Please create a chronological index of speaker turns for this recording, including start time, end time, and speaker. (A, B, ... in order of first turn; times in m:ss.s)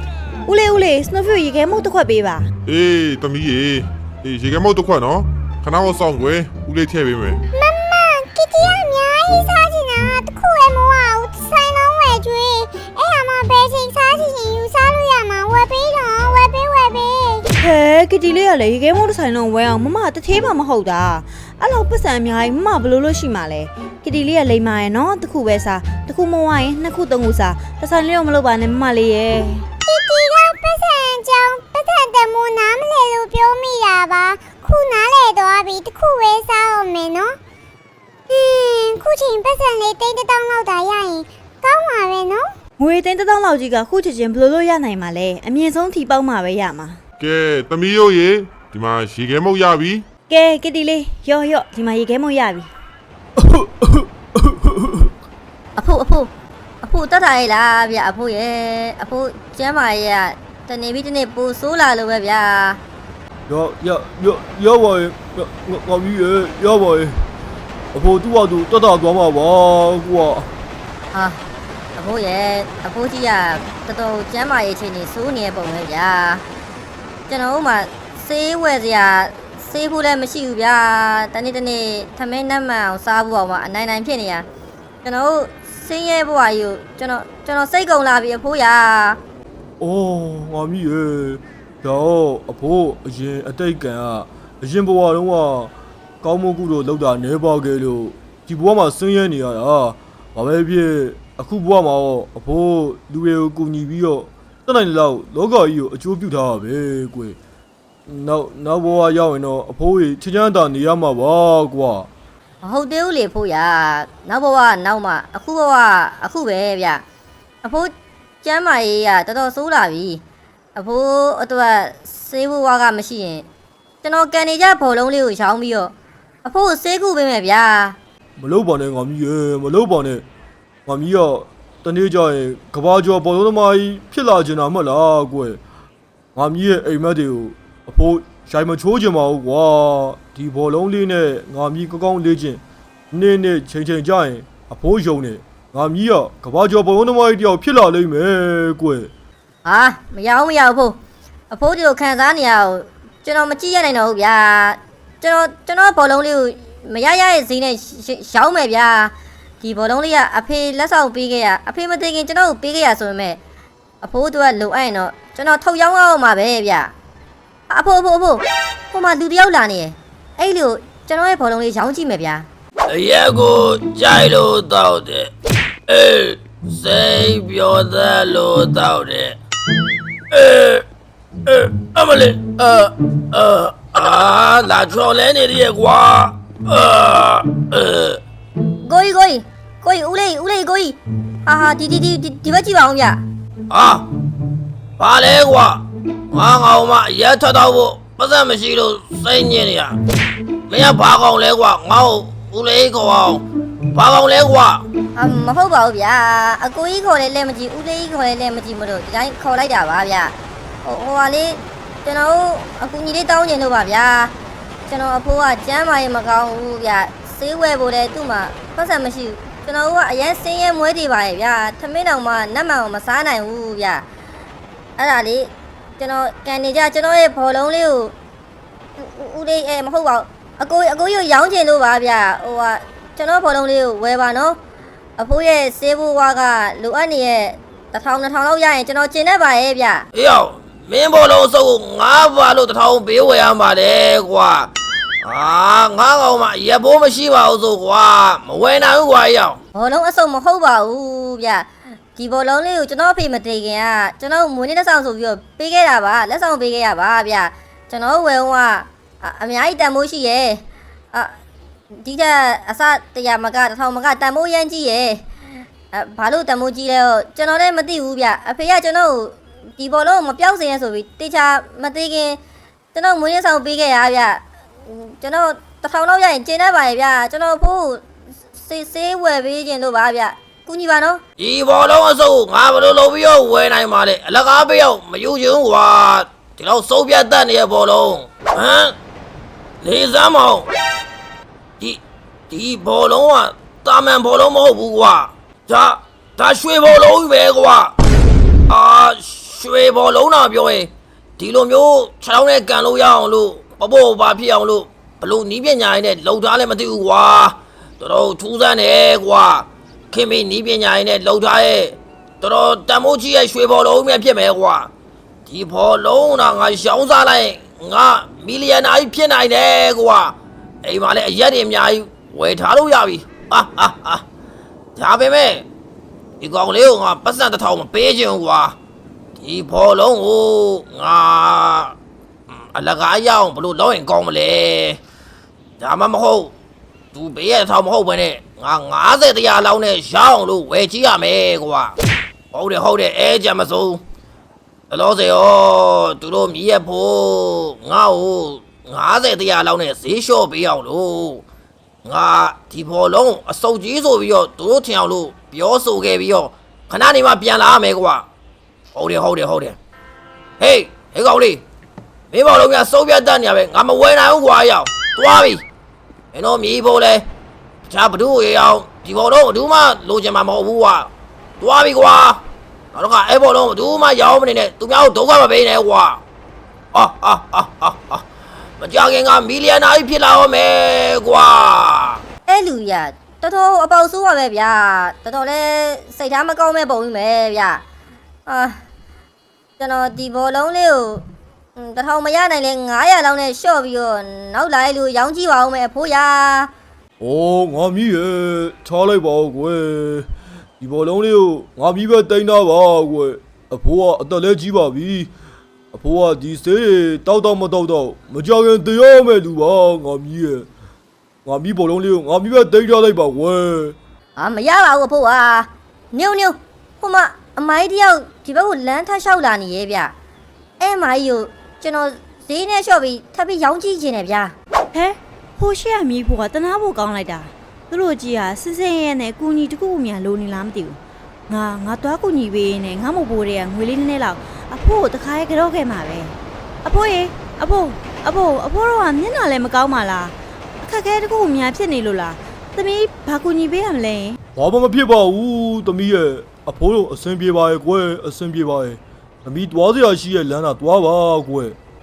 0:00.4-0:02.5 A
0:02.6-0:07.4 B
0:07.5-0:17.4 C
0:17.6-0:29.6 A
0:29.8-0:37.4 C
0:38.3-0:42.5 C
0:42.8-0:47.0 A
0:47.2-0:50.0 B
0:50.3-0:52.7 A
0:53.4-0:55.1 D
0:55.8-0:56.3 E
0:56.8-1:02.8 E
1:03.5-1:07.2 D
1:07.9-1:10.5 D
1:11.1-1:11.4 E
1:12.0-1:16.4 E
1:17.3-1:24.4 E
1:25.0-1:29.2 E
1:29.8-1:47.4 D
1:48.1-1:52.1 D
1:52.6-1:57.0 E
1:57.6-1:57.9 E
1:58.4-2:00.2 E
2:00.8-2:03.5 E
2:04.0-2:05.9 E
2:06.4-2:08.0 E
2:08.4-2:10.2 D
2:10.9-2:15.6 D
2:16.3-2:29.1 D
2:29.6-2:31.0 E
2:31.5-2:43.4 E
2:44.0-2:46.9 E
2:47.7-2:52.5 E
2:52.9-2:55.3 F
2:55.9-2:59.4 F
3:00.3-3:00.8 F
3:01.5-3:08.2 F
3:08.8-3:13.2 E
3:13.7-3:14.1 F
3:15.0-3:19.9 F
3:20.7-3:24.8 F
3:25.2-3:34.3 E
3:34.9-3:44.0 E
3:45.0-3:48.1 E
3:49.0-3:54.6 E
3:55.2-4:00.1 E
4:00.1-4:04.7 F
4:05.2-4:09.6 F
4:09.7-4:21.3 E
4:21.9-4:25.2 E
4:25.9-4:32.4 E
4:32.9-4:38.0 E
4:38.6-4:41.2 E
4:41.4-4:48.9 F
4:49.8-4:50.7 F
4:51.8-4:57.9 F
4:58.7-5:14.9 F
5:15.4-5:24.2 F
5:25.0-5:25.6 F
5:26.4-5:28.8 F
5:29.4-5:31.9 F
5:32.5-5:35.0 F
5:35.8-5:36.5 F
5:37.1-5:42.0 F
5:42.5-5:44.0 F
5:44.9-5:51.4 F
5:52.0-5:58.2 F
5:58.9-5:59.8 F
6:00.6-6:01.6 F
6:02.3-6:05.6 F
6:06.3-6:07.2 F
6:07.9-6:12.4 F
6:12.9-6:16.2 F
6:16.9-6:18.2 F
6:18.8-6:22.2 F
6:22.5-6:27.8 E
6:28.4-6:28.8 E
6:29.8-6:31.2 E
6:31.8-6:36.7 E
6:37.2-6:40.3 D
6:40.8-6:45.3 D
6:45.9-6:50.7 D
6:51.4-6:54.0 D
6:54.4-7:00.1 E
7:00.8-7:04.5 E
7:04.9-7:24.4 A
7:24.6-7:31.8 D